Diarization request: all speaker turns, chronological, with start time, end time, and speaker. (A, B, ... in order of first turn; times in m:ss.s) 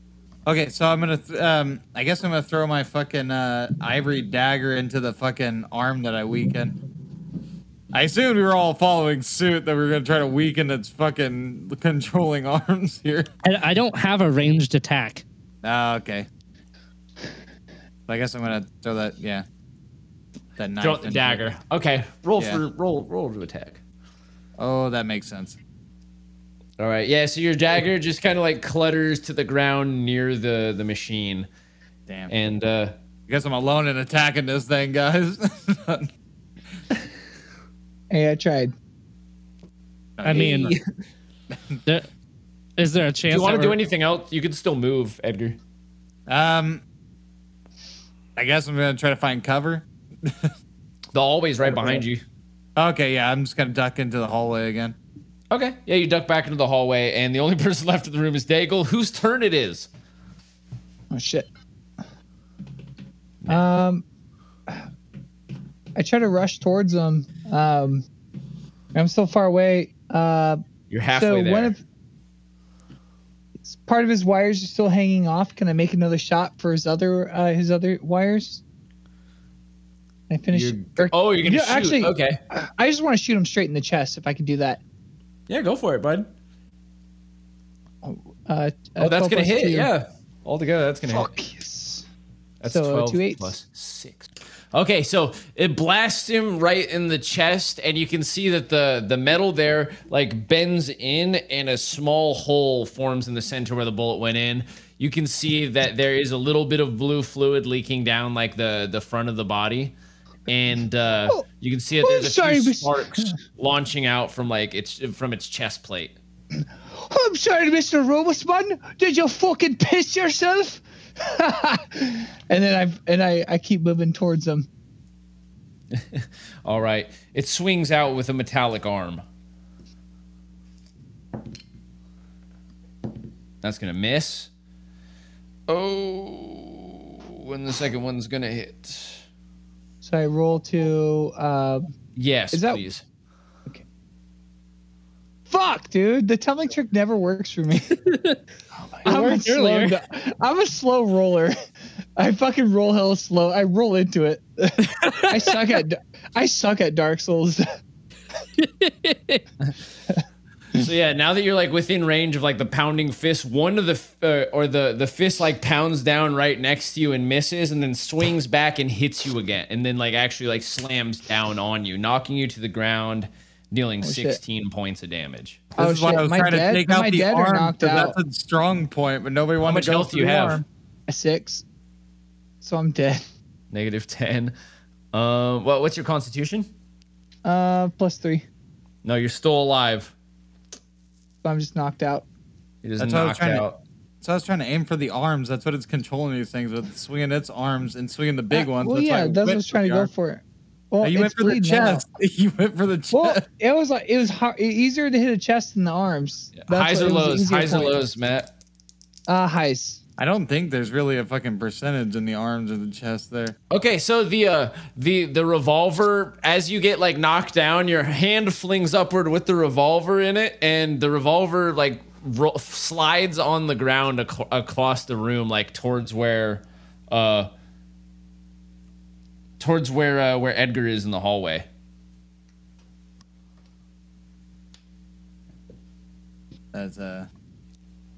0:00.5-0:06.8 A
0:07.9-0:13.3 A
0:13.4-0:15.2 B
0:15.6-0:16.3 A
0:18.1-0:19.4 A
0:20.6-0:21.5 A
0:20.8-0:23.8 C
0:24.6-0:25.6 A
0:26.8-0:31.5 C
0:32.1-0:32.3 A
0:32.3-0:32.9 C
0:33.3-0:36.1 A
0:38.1-0:38.7 D
0:40.2-0:40.8 A
0:40.2-0:40.7 B
0:40.3-0:40.8 C
0:42.8-0:43.8 B
0:43.3-0:45.6 C
0:46.3-0:46.8 A
0:48.4-0:50.5 A
0:51.1-0:52.2 C
0:52.8-0:55.0 A
0:55.5-0:59.9 C
1:01.1-1:01.5 D
1:03.5-1:04.0 D
1:06.0-1:08.1 D
1:08.9-1:10.6 D
1:10.9-1:11.7 C
1:11.1-1:11.8 D
1:13.6-1:18.6 D
1:20.3-1:24.8 D
1:20.5-1:22.4 C
1:25.5-1:26.3 C
1:28.0-1:29.9 D
1:29.0-1:31.3 C
1:31.1-1:32.1 D
1:32.6-1:49.9 C
1:32.7-1:33.5 D
1:50.5-1:56.2 C
1:52.0-1:53.3 D
1:57.0-2:04.7 D
2:05.9-2:09.2 C
2:13.6-2:14.5 C
2:15.7-2:19.2 C
2:20.0-2:21.8 D
2:22.2-2:23.0 C
2:22.5-2:22.8 D
2:25.5-2:28.0 D
2:28.0-2:28.4 B
2:29.0-2:31.6 D
2:29.0-2:30.0 B
2:32.2-2:37.6 D
2:35.0-2:35.4 B
2:38.6-2:39.4 B
2:40.8-2:55.6 C
2:54.0-2:54.4 D
2:55.8-2:58.2 D
2:55.8-3:00.6 A
2:59.6-3:00.6 C
3:01.1-3:01.6 D
3:02.6-3:03.3 D
3:03.7-3:04.6 C
3:05.1-3:06.7 C
3:07.4-3:08.4 D
3:09.0-3:10.1 C
3:11.4-3:12.2 D
3:12.8-3:13.8 C
3:13.0-3:13.7 A
3:14.2-3:20.1 A
3:18.5-3:22.0 D
3:21.0-3:23.4 A
3:23.1-3:28.0 D
3:26.6-3:28.5 C
3:29.3-3:30.0 D
3:30.2-3:33.6 A
3:33.7-3:47.5 C
3:49.6-3:51.7 C
3:56.7-3:57.3 A